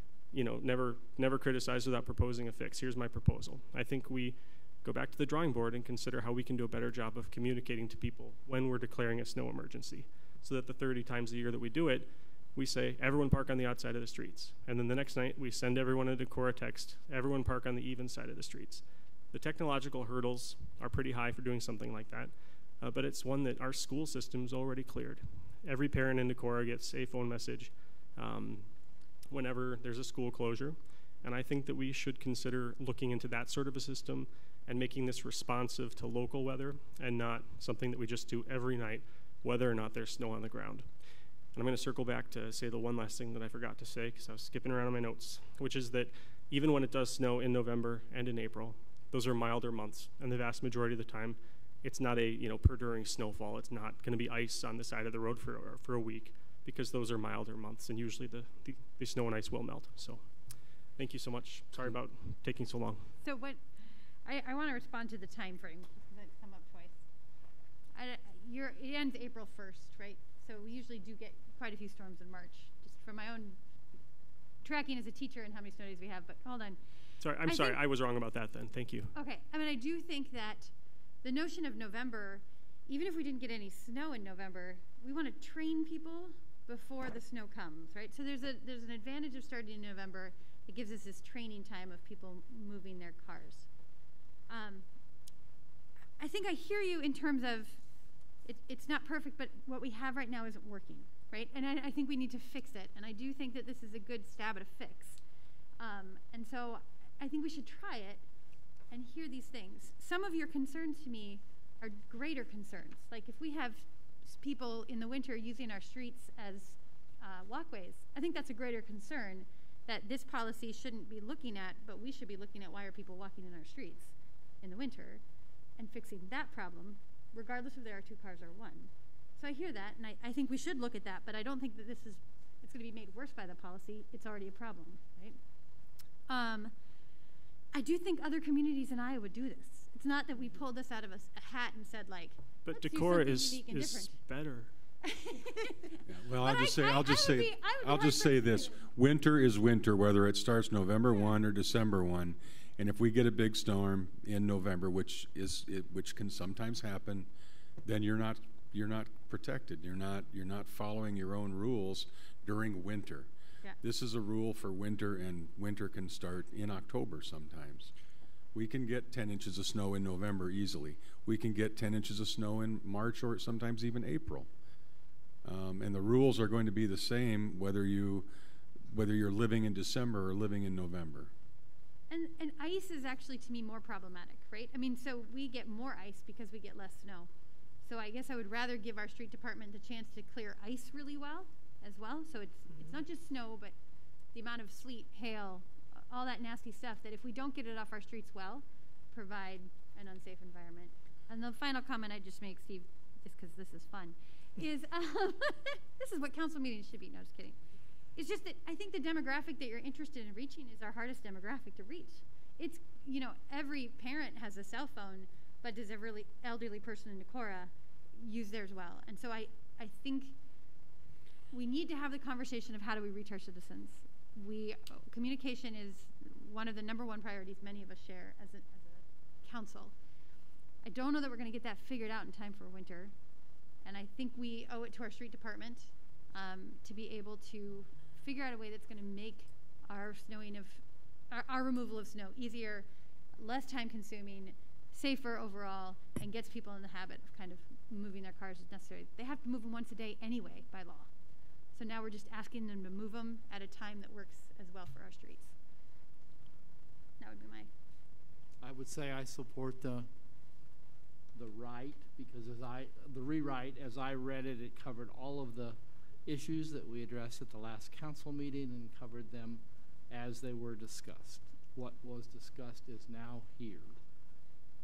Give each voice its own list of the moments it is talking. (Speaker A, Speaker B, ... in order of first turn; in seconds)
Speaker A: 0.3-28.7, 29.3-40.9, 41.5-60.2, 61.0-63.1, 77.2-79.1, 142.7-144.7
Speaker B: 63.2-63.6, 64.2-67.0, 67.9-73.6, 74.6-76.8, 77.4-77.8, 79.1-80.7, 81.2-93.7, 94.5-94.8, 96.2-97.8, 98.4-105.2, 105.8-108.2, 108.9-125.2, 125.8-135.4, 136.3-136.7, 137.7-144.1, 145.0-148.8, 151.1-151.3, 182.1-187.3, 187.8-193.7, 194.3-207.6, 208.2-220.3, 221.5-229.9, 230.8-233.1, 233.8-251.1, 251.7-255.5, 257.2-257.7
Speaker C: 146.1-157.3, 157.8-167.9, 168.5-174.5, 175.4-178.3, 178.9-181.3
Speaker D: 258.6-260.1, 261.3-273.9